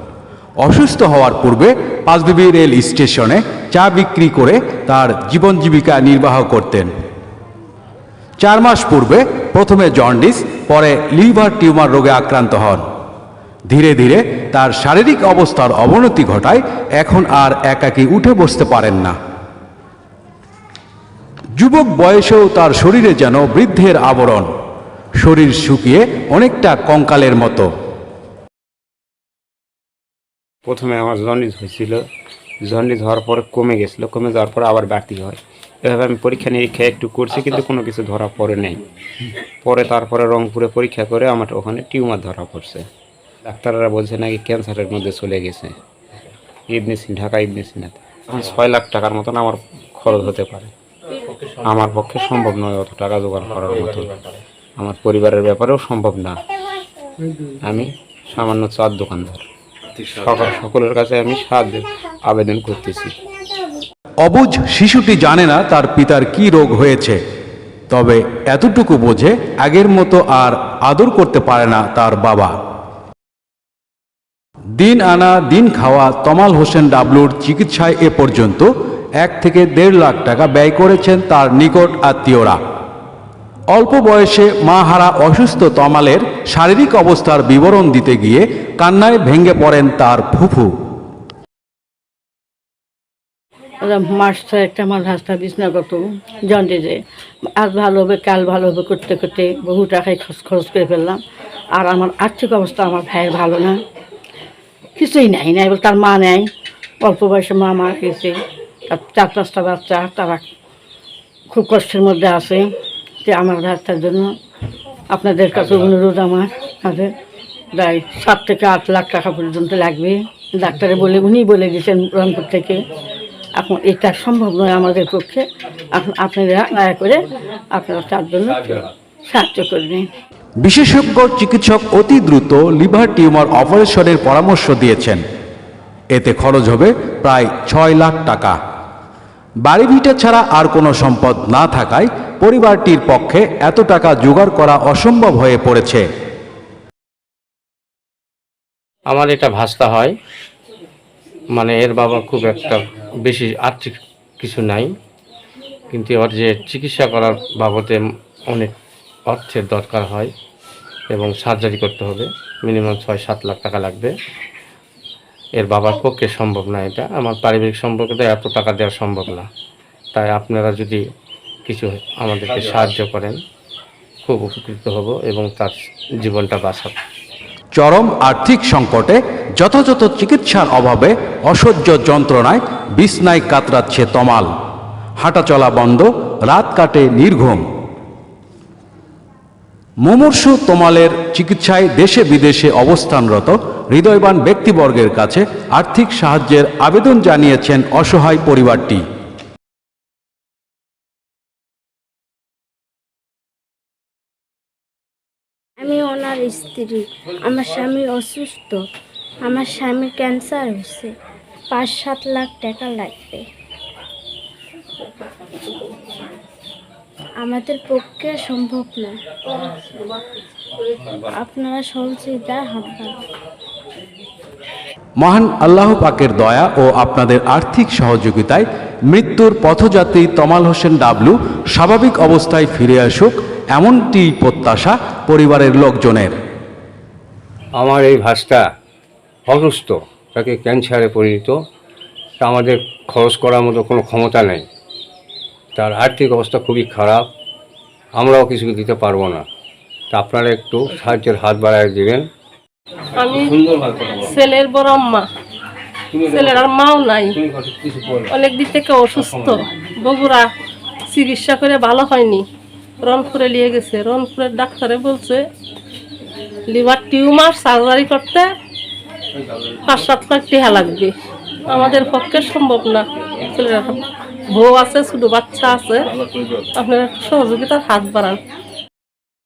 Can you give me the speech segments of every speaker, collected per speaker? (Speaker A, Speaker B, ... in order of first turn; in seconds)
Speaker A: 0.6-6.9, 8.4-12.8, 13.7-19.1, 21.6-24.5, 25.2-27.7, 64.2-67.2, 67.9-72.5, 74.8-78.7, 79.2-82.6, 83.7-90.7, 130.6-135.2, 136.1-138.6, 139.6-146.1, 177.7-184.5, 185.2-187.6, 190.0-199.0, 225.2-236.3
Speaker B: 30.6-32.0, 32.6-38.8, 39.6-42.9, 43.5-45.8, 46.7-50.7, 51.6-54.1, 54.8-56.4, 57.6-59.4, 60.0-63.1
Speaker C: 51.1-51.8, 53.4-54.4, 149.1-150.1, 151.5-154.9, 155.9-158.7, 159.3-160.3, 161.1-164.1, 165.6-169.5, 170.1-171.0, 171.7-173.4, 174.2-176.9
Speaker D: 93.8-97.0, 97.6-101.2, 101.7-103.8, 105.0-106.5, 107.0-108.3, 108.9-110.4, 111.5-112.7, 113.2-114.3, 115.1-117.1, 117.7-122.8, 123.5-130.1
Speaker E: 205.8-208.8, 209.4-211.1, 211.7-213.4, 217.4-219.7, 221.2-223.2
Speaker F: 237.8-238.6, 239.5-241.5, 242.4-244.6, 245.8-247.2, 248.2-249.4, 250.2-252.2
Speaker G: 253.2-253.6, 254.1-255.3, 256.2-257.4, 258.3-260.5, 261.1-262.4, 263.0-265.4, 266.7-268.5, 269.9-271.1, 271.7-274.0, 274.5-276.1, 276.7-278.4